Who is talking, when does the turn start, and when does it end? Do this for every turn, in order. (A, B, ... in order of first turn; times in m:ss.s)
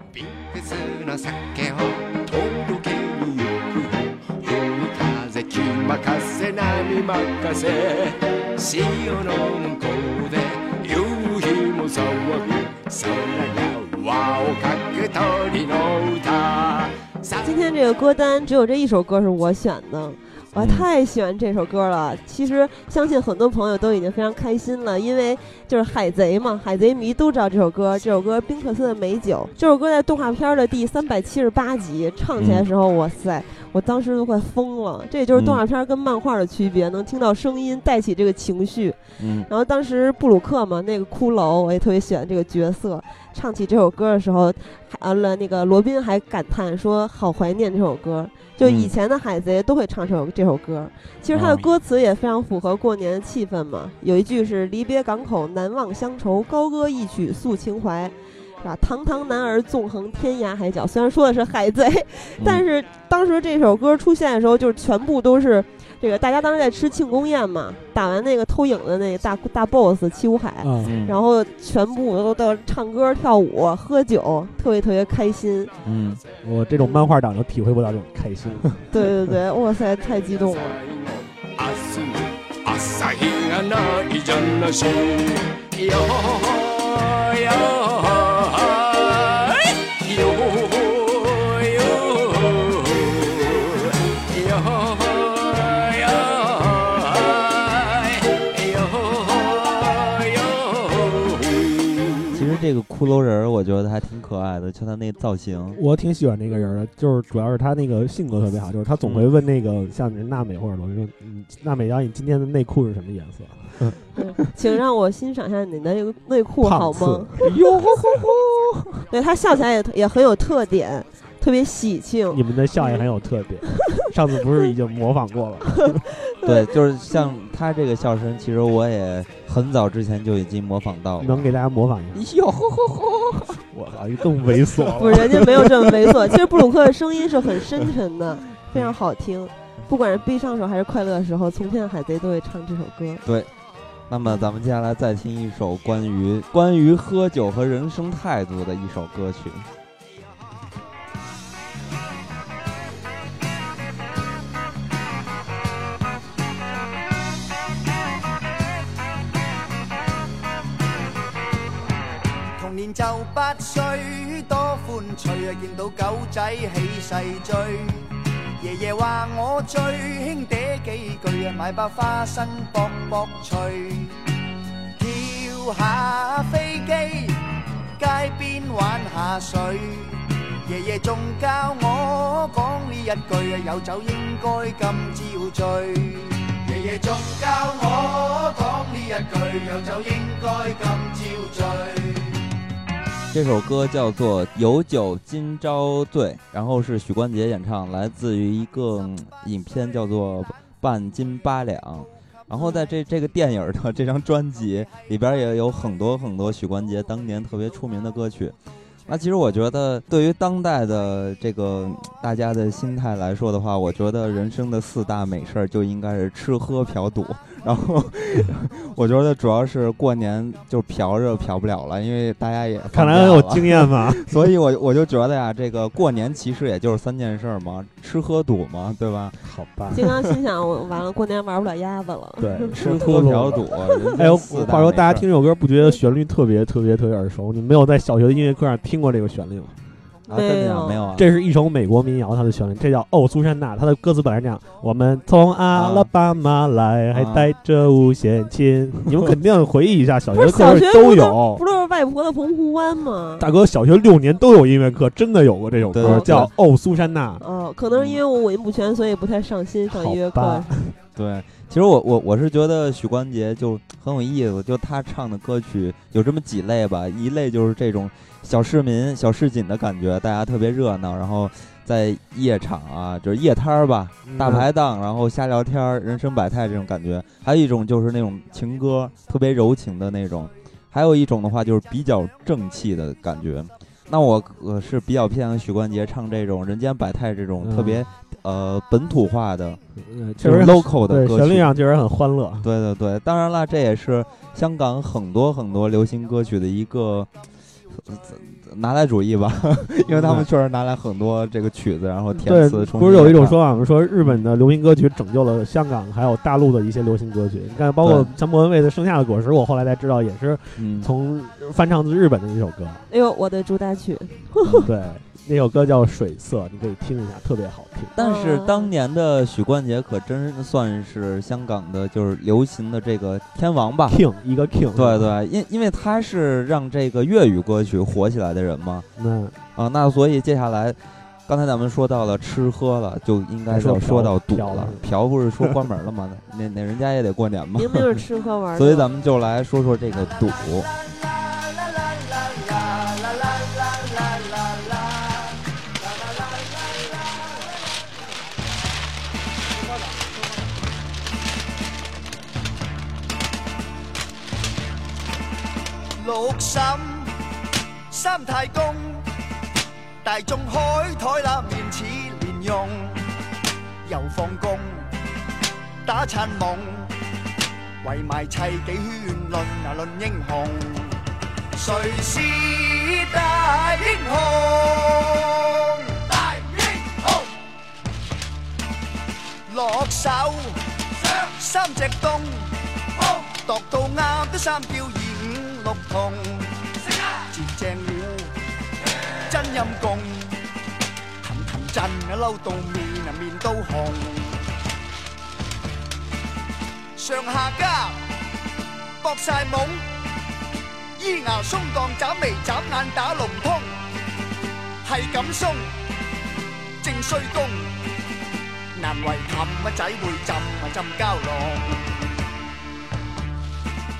0:00.1-0:17.5 A
0:17.4-1:15.7 B
0:20.6-0:20.9 C
0:32.4-0:32.7 C
0:35.3-0:35.6 C
0:39.2-0:39.5 C
0:48.6-0:48.9 C
0:51.3-0:51.7 C
1:02.4-1:02.6 C
1:10.6-1:11.0 D
1:10.8-1:11.2 C
1:15.8-1:16.2 C
1:16.4-1:18.8 D
1:16.8-1:17.1 B
1:18.9-1:20.8 B
1:20.6-1:42.5 A
1:42.3-1:45.8 C
1:45.8-1:54.0 D
1:46.5-1:46.8 B
1:54.2-1:57.5 B
1:56.6-1:57.7 D
1:57.6-1:58.3 C
1:59.1-2:03.1 B
2:02.3-2:06.0 D
2:06.3-2:07.4 B
2:06.4-2:11.5 C
2:11.2-2:12.3 D
2:12.1-2:13.6 C
2:13.7-2:15.8 D
2:15.0-2:23.2 B
2:23.2-2:23.5 C
2:24.1-2:29.7 C
2:42.6-2:54.2 E
2:55.0-2:57.4 E
2:58.0-3:12.4 E
3:13.3-3:28.6 C
3:22.5-3:22.8 B
3:29.1-3:49.4 C
3:42.9-3:44.4 D
3:49.4-3:50.0 D
3:49.9-3:52.8 B
3:50.0-3:50.2 C
3:52.4-3:59.8 D
3:52.7-3:55.3 C
4:00.3-4:01.1 B
4:00.3-4:01.3 C
4:01.2-4:11.6 D
4:05.7-4:06.1 C
4:07.1-4:07.5 C
4:10.3-4:13.5 B
4:13.4-4:17.4 D
4:15.9-4:16.5 C
4:16.0-4:16.5 B
4:17.4-4:20.8 B
4:17.9-4:18.2 C
4:19.9-4:21.0 D
4:21.2-4:49.8 C
4:34.3-4:34.7 D
4:47.6-4:48.0 D
4:50.0-4:52.7 D
4:50.4-4:51.8 C
4:52.6-4:57.3 C
4:57.9-5:03.6 C
5:00.1-5:00.5 D
5:02.4-5:13.0 D
5:08.0-5:08.3 C
5:10.8-5:11.1 C
5:13.1-5:14.9 B
5:14.6-5:14.9 C
5:14.8-5:18.2 D
5:18.2-5:24.2 C
5:18.2-5:18.9 B
5:24.1-5:25.3 D
5:24.9-5:29.1 C
5:29.2-5:29.6 D
5:29.8-5:38.2 C
5:33.7-5:35.1 D
5:37.8-5:39.1 B
5:38.8-5:40.9 C
5:41.4-5:47.2 E
5:56.2-5:57.3 E
5:58.1-5:59.2 E
6:00.2-6:03.2 E
6:04.0-6:05.1 E
6:06.0-6:07.1 E
6:08.0-6:11.2 E
6:11.7-6:17.4 E
6:19.7-6:22.7 E
6:23.2-6:26.7 E
6:27.5-6:28.5 E
6:29.5-6:30.6 E
6:31.4-6:34.6 E
6:37.2-6:38.2 E
6:39.2-6:40.0 E
6:41.2-6:43.9 E
6:45.0-6:45.8 E
6:47.0-6:47.8 E
6:48.9-6:52.0 E